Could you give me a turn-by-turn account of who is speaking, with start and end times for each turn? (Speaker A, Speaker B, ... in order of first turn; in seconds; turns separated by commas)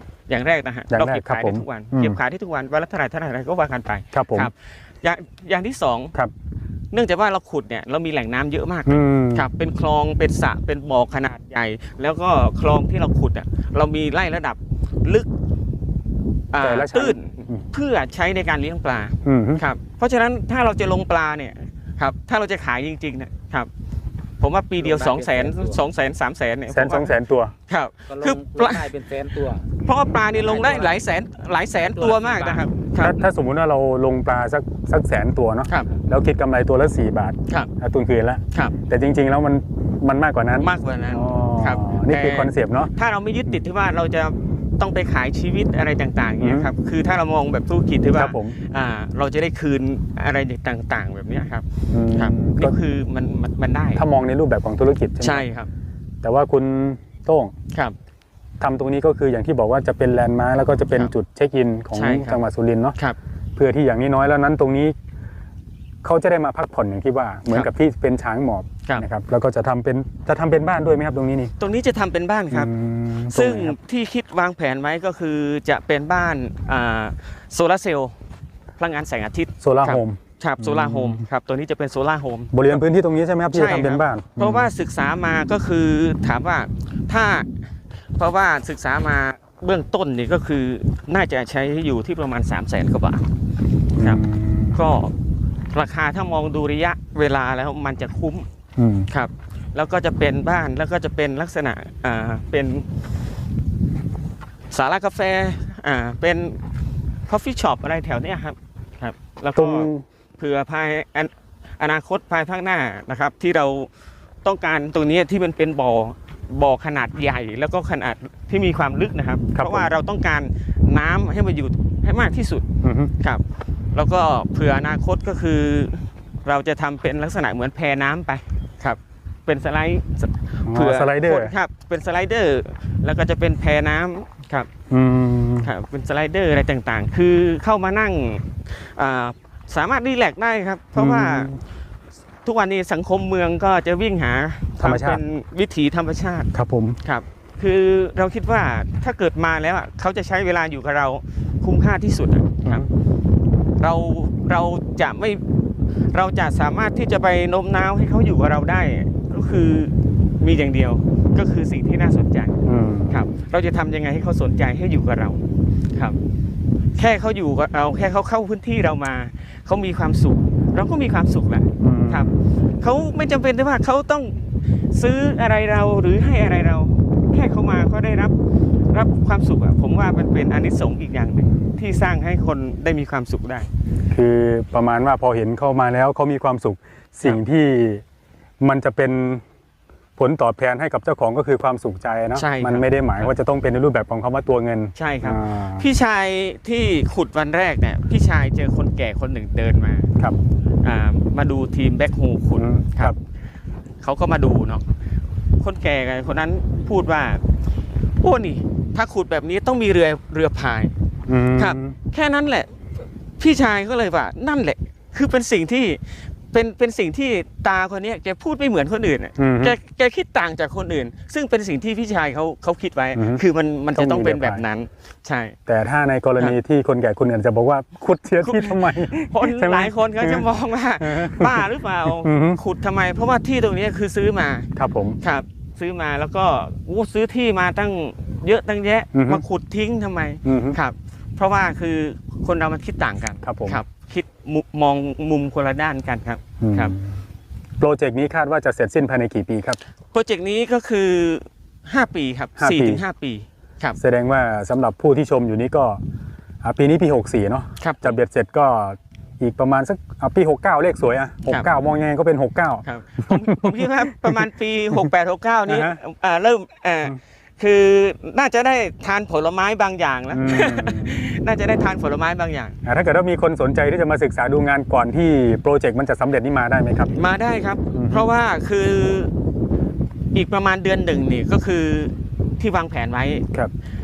Speaker A: 0.3-6.1, Speaker B: 0.9-2.2, Speaker B: 4.1-4.5, Speaker A: 6.9-15.3, Speaker B: 8.8-9.5, Speaker A: 16.5-23.7, Speaker B: 16.6-17.6, Speaker B: 19.2-19.6, Speaker A: 24.4-27.1, Speaker C: 24.8-25.8, Speaker B: 26.7-27.5, Speaker A: 27.7-28.9, Speaker C: 28.1-29.7, Speaker A: 29.8-33.2, Speaker C: 30.4-30.9, Speaker C: 31.9-32.6, Speaker B: 33.0-42.9, Speaker A: 40.6-54.0, Speaker B: 46.4-46.7, Speaker B: 48.1-48.5, Speaker B: 51.9-52.8, Speaker B: 53.9-55.5, Speaker A: 55.2-55.7, Speaker B: 56.2-57.5, Speaker B: 58.6-63.0, Speaker A: 61.9-62.4, Speaker B: 63.5-64.9, Speaker B: 66.0-71.5, Speaker A: 71.6-72.7, Speaker B: 72.5-73.8, Speaker A: 73.3-78.1, Speaker A: 78.8-82.8, Speaker B: 79.6-81.2, Speaker B: 82.5-84.7, Speaker A: 83.5-87.5, Speaker A: 88.2-93.2, Speaker B: 94.0-94.8, Speaker A: 94.7-95.1, Speaker A: 95.7-98.4, Speaker B: 98.8-99.1, Speaker A: 99.1-102.9, Speaker A: 104.7-106.6, Speaker A: 107.3-113.9, Speaker B: 109.5-110.0, Speaker A: 114.4-122.6, Speaker B: 119.5-119.9, Speaker B: 122.8-123.1, Speaker A: 123.2-123.4, Speaker A: 123.9-134.7, Speaker B: 130.7-131.5, Speaker B: 134.9-135.7, Speaker A: 135.6-141.5, Speaker B: 140.9-141.6, Speaker A: 142.4-146.5, Speaker B: 144.8-145.2, Speaker B: 146.5-147.0, Speaker A: 147.0-152.8, Speaker A: 153.8-155.4, Speaker A: 156.1-162.6, Speaker B: 162.6-163.2, Speaker A: 163.1-165.4, Speaker A: 166.9-178.3, Speaker B: 171.8-172.4, Speaker A: 178.9-183.7, Speaker B: 184.1-188.0, Speaker B: 188.6-189.4, Speaker B: 190.2-195.9, Speaker A: 192.3-193.3, Speaker A: 194.9-200.1, Speaker A: 200.8-203.1, Speaker B: 202.6-203.2, Speaker A: 204.0-204.9, Speaker A: 205.6-207.4, Speaker A: 208.2-210.9, Speaker B: 211.3-211.9, Speaker A: 211.5-212.7, Speaker A: 213.4-225.5, Speaker B: 219.4-219.8, Speaker B: 223.2-223.4, Speaker B: 223.9-224.6, Speaker B: 225.7-230.5, Speaker A: 228.4-234.7, Speaker B: 231.0-232.6, Speaker B: 234.8-235.2, Speaker A: 235.2-246.9, Speaker B: 239.1-239.4, Speaker B: 240.4-240.8, Speaker B: 243.4-243.8, Speaker B: 246.6-247.2, Speaker B: 247.8-249.8, Speaker A: 250.1-254.0, Speaker B: 252.6-253.0, Speaker B: 254.0-256.0, Speaker B: 256.6-263.8, Speaker A: 257.8-258.2, Speaker A: 261.4-261.7, Speaker A: 262.8-272.7, Speaker B: 265.6-266.0, Speaker B: 270.3-271.2, Speaker B: 272.8-277.1, Speaker A: 277.1-279.3, Speaker B: 277.9-278.3, Speaker A: 280.3-283.5